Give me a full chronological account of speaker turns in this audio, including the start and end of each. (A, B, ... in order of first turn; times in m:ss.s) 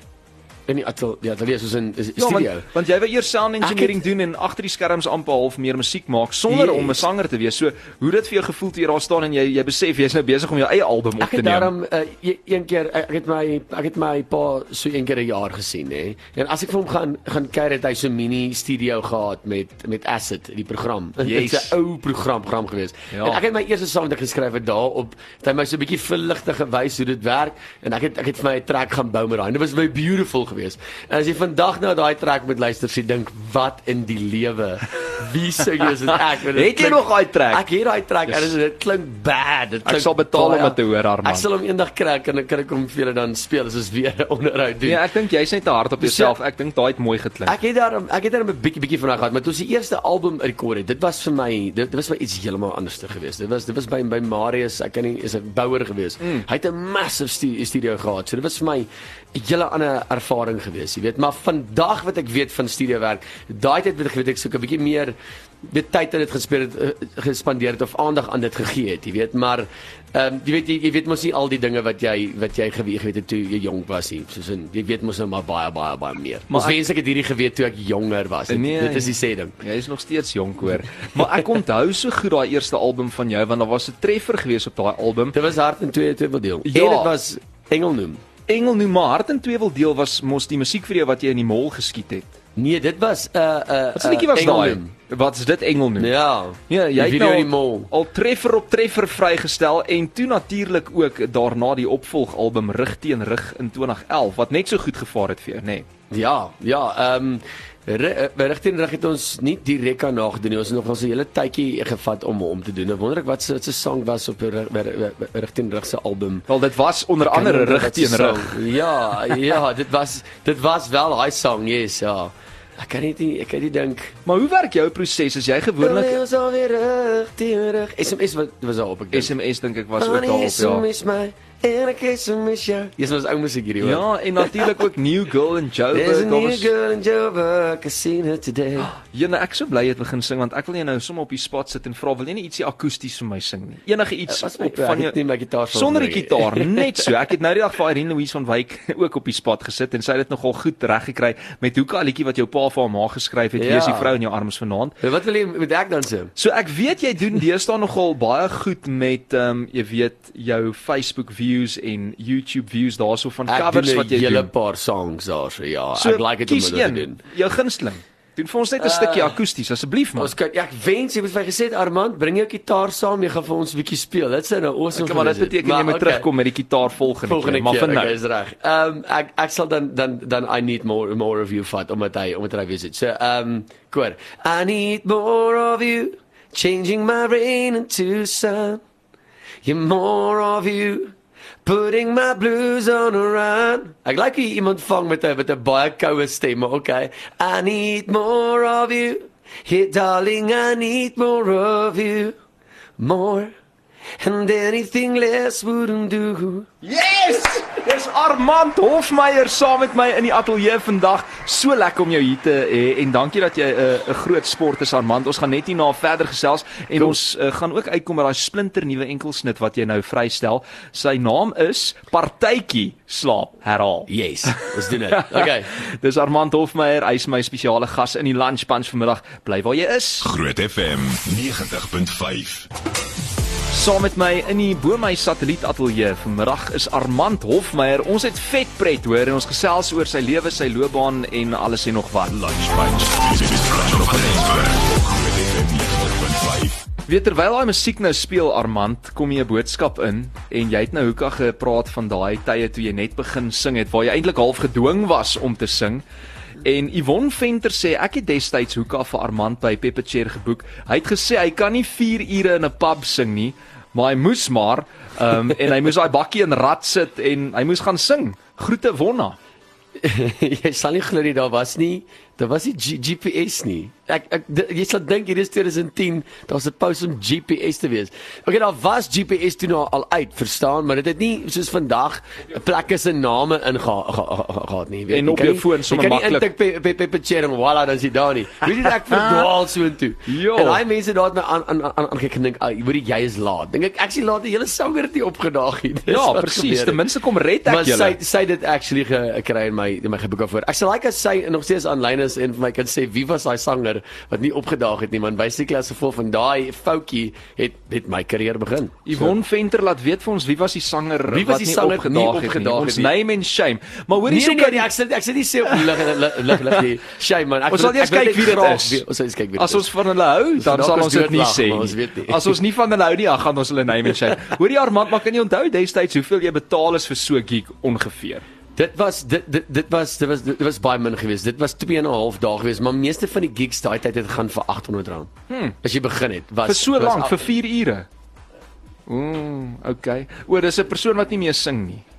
0:00.7-0:02.7 A
0:02.2-0:11.7 B
0:03.6-0:04.0 A
0:06.5-0:07.1 A
0:11.2-0:45.0 A
0:21.2-0:21.8 B
0:23.1-0:23.4 B
0:36.4-0:37.7 B
0:38.2-0:38.5 B
0:39.8-0:41.4 B
0:44.8-0:47.6 B
0:46.0-0:46.4 A
0:47.4-1:19.6 A
1:16.5-1:16.8 B
1:18.5-1:25.4 B
1:21.2-1:21.4 A
1:25.3-1:28.2 A
1:26.6-1:27.1 B
1:28.5-1:32.3 B
1:32.6-1:34.9 A
1:33.9-1:36.1 B
1:36.0-1:37.9 A
1:36.7-1:45.9 B
1:46.1-1:56.4 A
1:56.5-1:58.6 B
1:57.2-2:04.2 A
2:04.2-2:06.2 B
2:05.8-2:09.3 A
2:09.1-2:10.9 B
2:10.0-2:14.8 A
2:13.8-2:16.7 B
2:15.9-2:18.9 A
2:18.8-2:25.2 B
2:24.3-2:27.1 A
2:25.7-2:35.0 B
2:33.6-2:34.1 A
2:35.0-2:36.3 A
2:36.4-2:44.5 B
2:43.5-2:47.2 A
2:45.9-2:50.3 B
2:48.8-2:49.4 A
2:50.2-2:56.3 A
2:54.9-2:58.2 B
2:57.2-3:08.8 A
3:09.6-3:22.4 A
3:23.0-3:23.5 A
3:24.2-3:26.7 A
3:26.8-3:50.3 B
3:44.1-3:45.7 A
3:50.2-3:52.7 C
3:53.7-4:02.4 B
4:02.3-4:06.8 C
4:07.1-4:16.0 B
4:16.6-4:29.4 B
4:30.0-4:57.0 A
4:45.1-4:46.5 B
4:49.1-4:49.4 B
4:50.3-4:50.8 B
4:56.1-4:58.2 B
4:57.6-5:09.3 A
5:09.1-5:14.9 B
5:11.3-5:13.1 A
5:14.3-5:19.9 A
5:17.7-5:19.0 B
5:19.6-5:28.4 B
5:20.6-5:22.6 A
5:28.8-5:37.4 A
5:35.5-5:35.8 B
5:36.6-5:38.1 B
5:39.1-5:42.0 B